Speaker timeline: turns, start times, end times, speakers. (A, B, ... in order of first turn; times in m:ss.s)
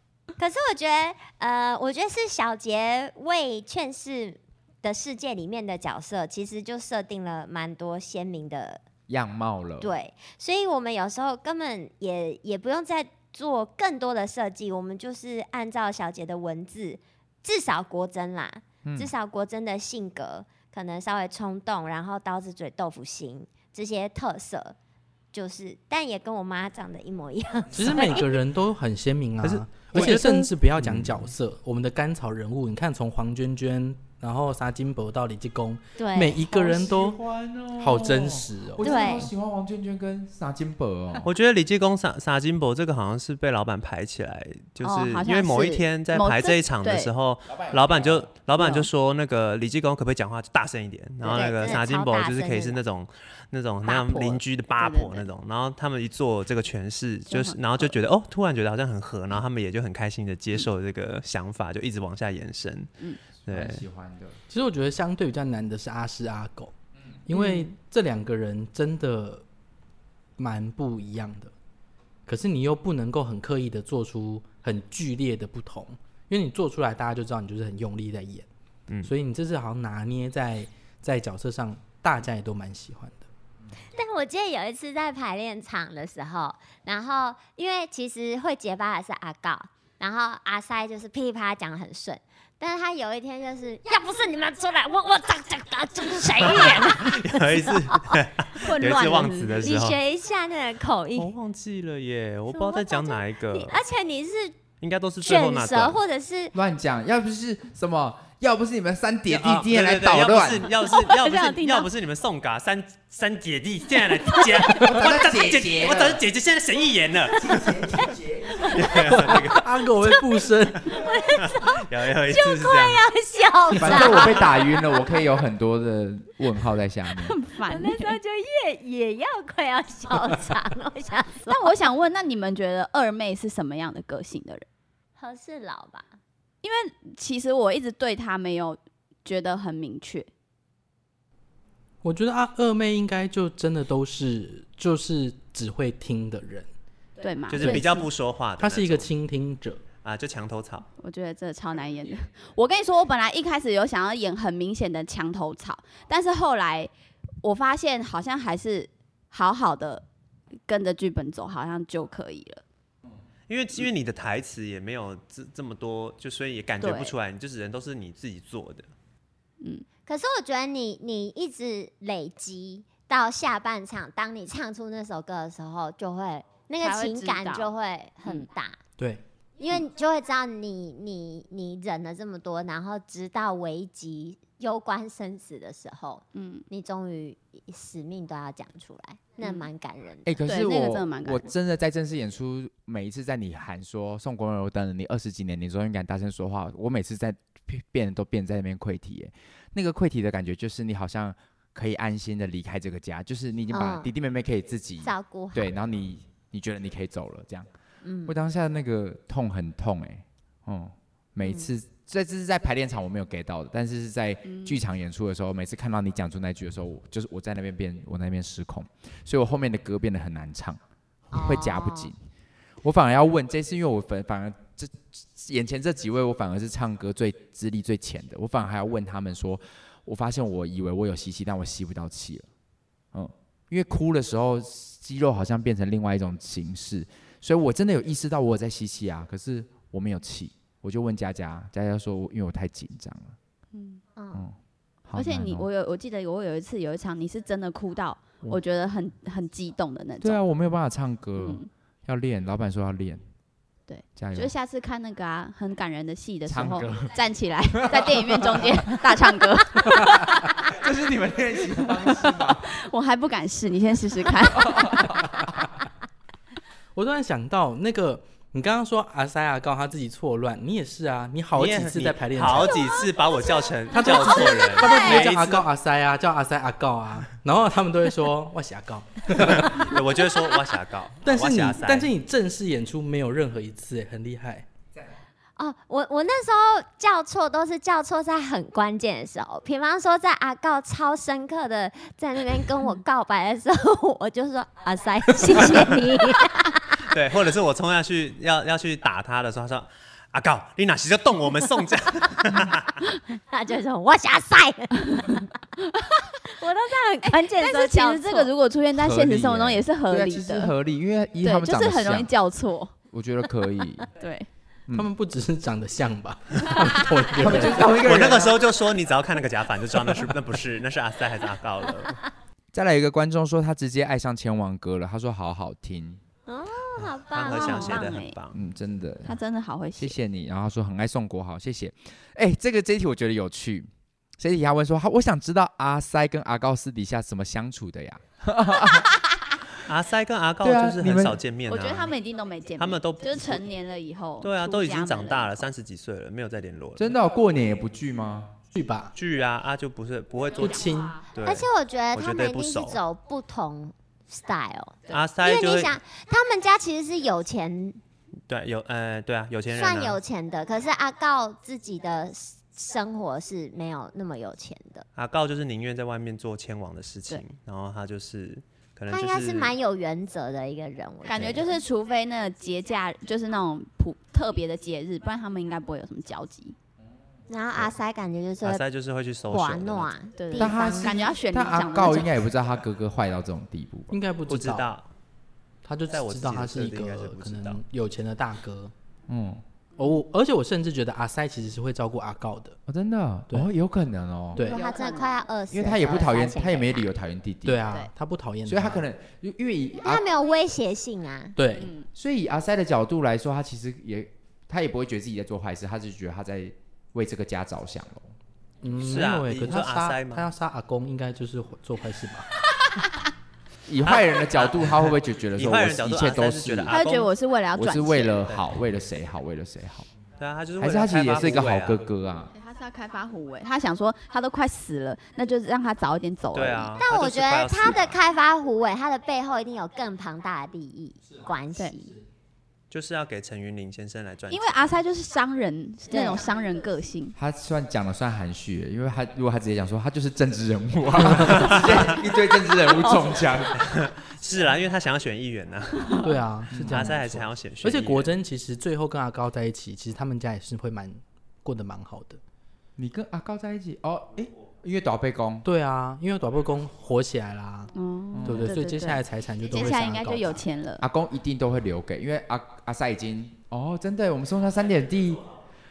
0:00.4-0:08.8 A
0:09.1-0:09.9 B
0:09.8-0:24.8 A
0:18.8-0:19.1 B
0:25.3-0:28.4 A
0:27.7-0:37.2 C
0:29.4-0:30.5 D
0:30.8-0:31.2 B
0:36.0-0:36.4 A
0:36.5-0:41.3 B
0:37.8-0:38.9 C
0:38.8-0:39.3 A
0:41.2-1:03.8 D
0:44.8-0:47.1 E
0:47.6-0:48.3 B
0:48.6-0:48.9 E
0:51.2-0:52.8 A
0:53.8-0:54.3 A
0:54.0-0:55.2 E
0:57.3-0:57.6 E
1:03.5-1:04.4 B
1:04.5-1:06.7 C
1:07.3-1:09.4 C
1:07.3-1:07.7 E
1:10.4-1:11.5 C
1:12.2-1:18.5 C
1:19.0-1:23.3 C
1:23.9-1:38.2 A
1:36.4-1:40.0 D
1:38.6-1:39.6 E
1:39.6-1:41.3 A
1:41.2-1:43.8 D
1:42.5-1:44.6 A
1:44.8-1:46.0 D
1:45.2-1:46.5 A
1:46.5-1:50.7 B
1:49.3-1:57.5 D
1:50.9-1:51.9 E
1:54.7-1:56.2 B
1:57.4-1:58.6 B
1:57.5-2:00.2 A
1:58.7-1:59.7 D
1:59.1-2:01.0 C
2:00.8-2:05.2 A
2:01.2-2:03.0 D
2:03.8-2:07.4 B
2:07.2-2:08.2 E
2:07.7-2:11.7 A
2:11.5-2:14.6 E
2:15.2-2:16.1 A
2:16.6-2:20.3 E
2:22.0-2:26.7 C
2:27.2-2:28.1 E
2:27.5-2:29.1 D
2:27.6-2:28.0 C
2:28.6-2:29.8 C
2:30.0-2:30.9 D
2:31.0-2:40.0 E
2:40.7-2:42.6 E
2:43.5-2:48.9 D
2:46.8-2:47.2 E
2:50.1-2:58.8 A
2:56.8-2:57.7 E
2:59.6-3:10.4 A
3:06.3-3:06.6 E
3:09.4-3:09.7 E
3:10.2-3:27.7 B
3:10.4-3:11.4 E
3:23.7-3:24.1 A
3:25.0-3:25.7 A
3:28.0-3:28.4 A
3:28.2-3:40.8 B
3:31.4-3:31.7 A
3:34.4-3:34.8 E
3:41.3-3:42.1 A
3:41.3-3:42.2 B
3:42.8-3:52.5 B
3:53.1-4:03.4 B
4:03.7-4:04.0 E
4:04.2-4:04.4 A
4:05.1-4:05.7 B
4:05.2-4:10.4 E
4:10.2-4:13.2 B
4:11.4-4:11.7 E
4:13.9-4:20.7 E
4:14.2-4:14.5 B
4:16.4-4:17.2 B
4:17.7-4:19.0 B
4:20.6-4:22.8 B
4:22.2-4:25.2 E
4:24.3-4:25.7 B
4:26.9-4:32.8 C
4:31.6-4:35.7 D
4:33.9-4:40.0 C
4:34.3-4:35.0 E
4:39.4-4:42.1 D
4:41.2-4:44.7 C
4:45.6-4:57.1 A
4:57.1-5:03.0 D
5:03.3-5:05.6 A
5:06.6-5:08.5 A
5:07.2-5:10.7 E
5:08.9-5:12.3 B
5:11.4-5:12.9 E
5:13.1-5:14.1 B
5:14.1-5:14.5 E
5:14.9-5:17.8 C
5:17.3-5:18.6 B
5:17.9-5:22.2 D
5:22.7-5:26.2 B
5:26.5-5:28.2 A
5:27.3-5:28.6 D
5:27.5-5:28.4 E
5:28.5-5:29.4 B
5:29.2-5:30.2 E
5:30.0-5:39.6 B
5:39.8-5:42.1 D
5:40.6-5:41.4 B
5:41.7-5:45.7 E
5:42.8-5:43.6 D
5:44.4-5:47.1 D
5:47.0-5:48.5 B
5:48.7-5:49.1 C
5:49.2-5:53.0 D
5:50.6-5:51.2 C
5:51.4-5:58.0 A
5:55.1-5:55.9 D
5:58.5-6:00.2 D
5:59.7-6:05.1 A
6:05.2-6:09.7 D
6:09.1-6:11.8 A
6:11.2-6:16.7 E
6:17.5-6:18.8 A
6:18.6-6:20.1 D
6:19.5-6:21.2 A
6:20.4-6:22.3 E
6:20.6-6:24.1 B
6:24.1-6:24.9 C
6:24.5-6:25.1 D
6:25.8-6:28.9 C
6:26.1-6:27.8 D
6:29.3-6:29.6 B
6:30.0-6:32.8 C
6:32.9-6:34.6 B
6:34.5-6:34.8 C
6:34.6-6:35.4 E
6:34.6-6:37.1 A
6:35.7-6:37.8 B
6:37.6-6:39.0 C
6:38.7-6:40.2 B
6:40.0-6:41.6 A
6:41.6-6:41.9 C
6:42.2-6:48.3 B
6:48.8-6:52.5 C
6:49.0-6:50.5 D
6:53.9-6:57.0 B
6:54.0-6:57.3 D
6:56.9-6:58.4 E
6:57.7-7:00.1 B
7:00.4-7:02.1 D
7:00.8-7:02.5 B
7:02.6-7:06.9 E
7:06.5-7:08.2 D
7:07.0-7:12.2 A
7:12.9-7:14.9 D
7:14.5-7:17.3 E
7:16.1-7:16.4 A
7:17.4-7:23.8 B
7:21.5-7:22.0 D
7:23.0-7:23.3 E
7:23.8-7:26.3 D
7:26.2-7:32.4 C
7:26.7-7:27.1 B
7:26.8-7:28.3 D
7:33.0-7:35.6 B
7:35.6-7:37.9 C
7:37.9-7:41.0 E
7:38.3-7:38.8 B
7:38.4-7:40.6 C
7:41.0-7:45.4 B